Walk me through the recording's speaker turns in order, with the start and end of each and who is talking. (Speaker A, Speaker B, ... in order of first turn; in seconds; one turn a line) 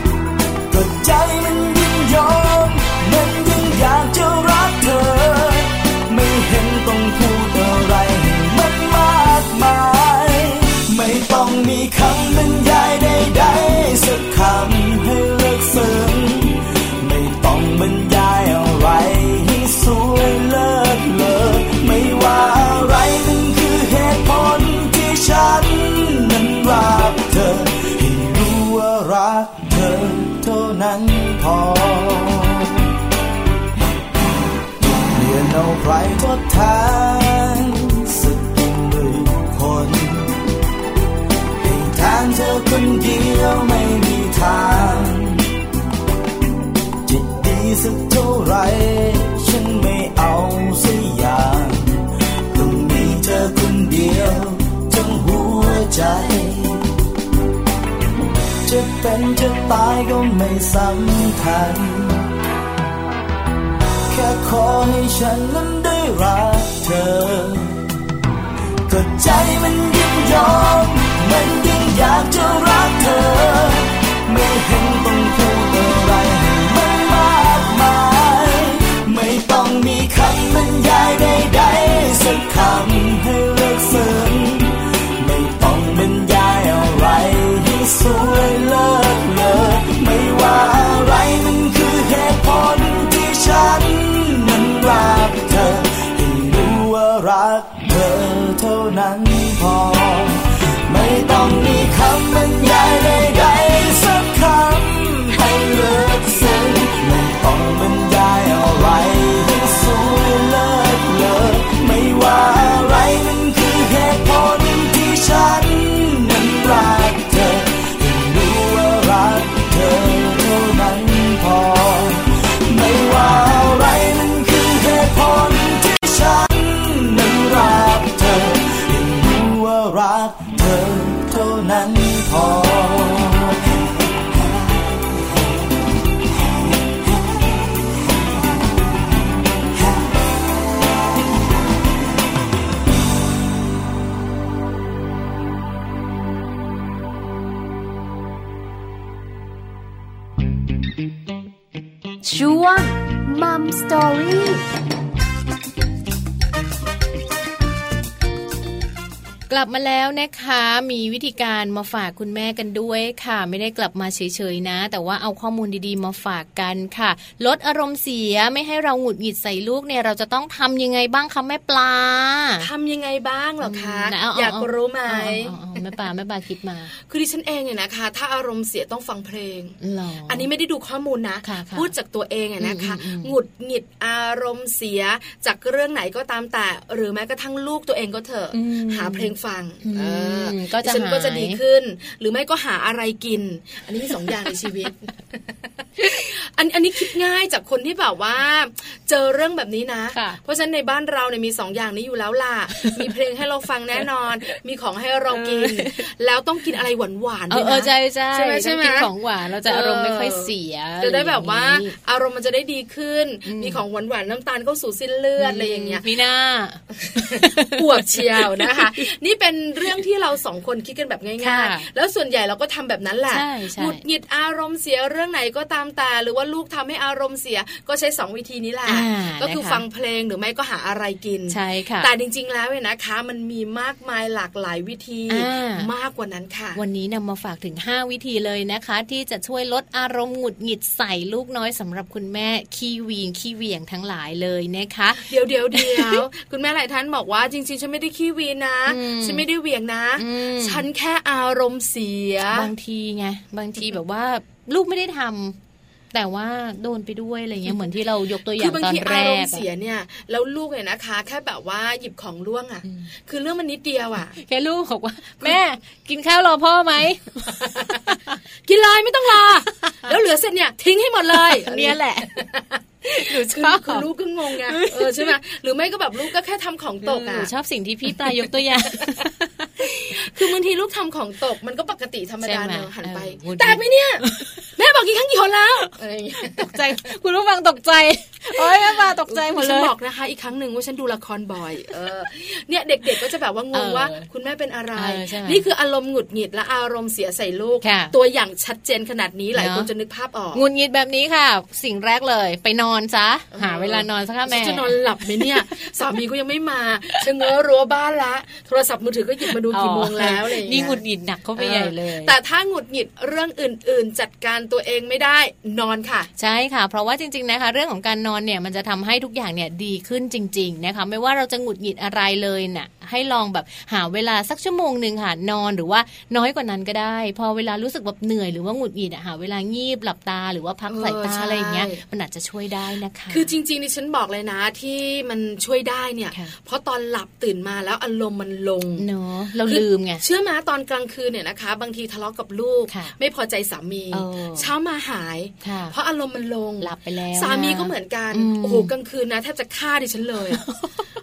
Speaker A: 0.7-32.9
Speaker A: 34.8-40.4
Speaker A: 41.6-45.5
Speaker A: 47.0-57.0
Speaker A: 58.6-62.3
Speaker A: 64.1-67.8
Speaker A: 68.9-133.8
Speaker B: 152.2-154.6
Speaker C: 159.5-172.7
Speaker D: 172.6-175.9
Speaker C: 173.6-176.9
Speaker D: 177.0-195.0
Speaker C: 179.8-180.5
Speaker C: 181.4-181.9
Speaker C: 182.6-183.3
Speaker C: 188.5-191.6
Speaker D: 196.0-209.1
Speaker C: 200.1-200.4
Speaker C: 202.8-203.1
Speaker C: 205.3-206.0
Speaker C: 207.5-211.9
Speaker D: 209.7-216.0
Speaker C: 213.5-213.8
Speaker C: 215.4-219.0
Speaker D: 217.0-236.8
Speaker C: 221.4-221.9
Speaker C: 223.3-224.0
Speaker C: 228.9-229.8
Speaker C: 231.5-232.1
Speaker C: 235.3-235.9
Speaker C: 236.8-246.2
Speaker D: 245.2-252.7
Speaker C: 248.9-249.5
Speaker C: 250.2-250.9
Speaker C: 252.5-255.6
Speaker C: 256.1-259.6
Speaker D: 258.5-264.4
Speaker C: 264.4-268.4
Speaker D: 268.6-277.5
Speaker C: 269.4-270.0
Speaker C: 271.3-272.4
Speaker C: 273.1-275.4
Speaker C: 277.0-279.9
Speaker D: 278.1-279.1
Speaker D: 279.9-284.2
Speaker C: 282.4-284.7
Speaker D: 284.8-286.8
Speaker C: 286.5-289.9
Speaker D: 288.5-300.6
Speaker C: 293.7-294.3
Speaker C: 294.9-295.6
Speaker C: 297.8-298.1
Speaker C: 299.6-299.9
Speaker C: 300.5-305.5
Speaker D: 303.5-311.0
Speaker C: 309.7-312.4
Speaker D: 311.6-316.3
Speaker C: 316.4-333.5
Speaker D: 330.9-332.0
Speaker D: 333.3-339.1
Speaker C: 339.0-340.2
Speaker D: 339.7-350.6
Speaker C: 342.9-343.1
Speaker C: 344.1-344.7
Speaker C: 345.6-345.9
Speaker C: 346.8-348.9
Speaker C: 350.7-351.0